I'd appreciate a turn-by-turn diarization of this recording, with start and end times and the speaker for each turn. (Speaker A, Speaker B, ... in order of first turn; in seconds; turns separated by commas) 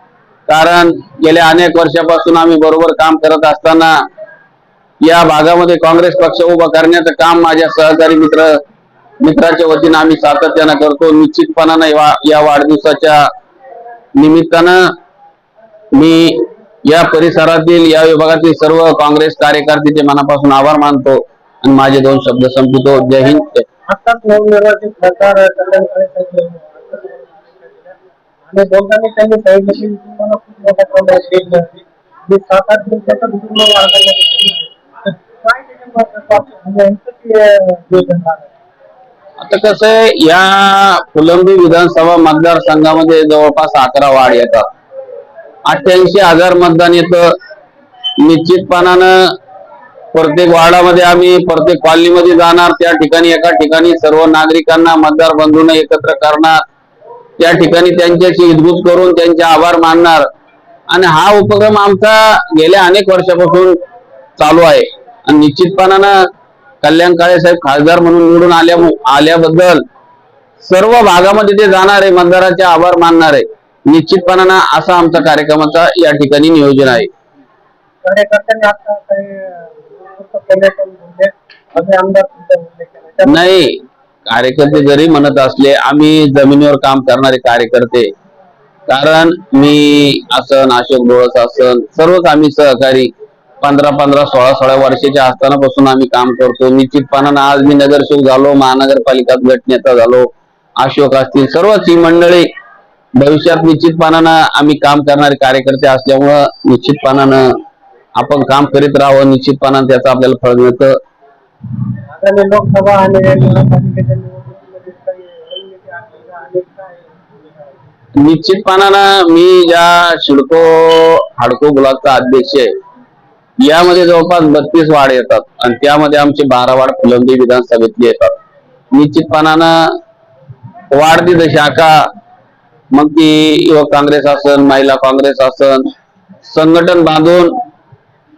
Speaker A: 0.5-4.0, Speaker A: 5.0-8.5, Speaker A: 9.2-13.3, Speaker A: 14.2-14.9, Speaker A: 15.9-23.6, Speaker B: 23.9-28.0, Speaker B: 28.5-34.7, Speaker B: 35.4-38.5, Speaker A: 39.4-44.6, Speaker A: 45.7-47.3, Speaker A: 48.2-49.3, Speaker A: 50.1-56.6, Speaker A: 57.4-60.3, Speaker A: 60.9-63.8, Speaker A: 64.4-66.1, Speaker A: 66.8-69.8, Speaker A: 70.6-77.1, Speaker B: 78.0-83.6, Speaker A: 83.2-88.1, Speaker A: 88.9-93.1, Speaker A: 93.6-100.3, Speaker A: 100.8-102.5, Speaker A: 103.2-107.5, Speaker A: 108.2-110.9, Speaker B: 112.1-117.8, Speaker A: 118.2-122.7, Speaker A: 123.6-128.3, Speaker A: 128.9-129.9, Speaker A: 130.9-132.1, Speaker A: 132.9-135.9, Speaker A: 136.4-137.5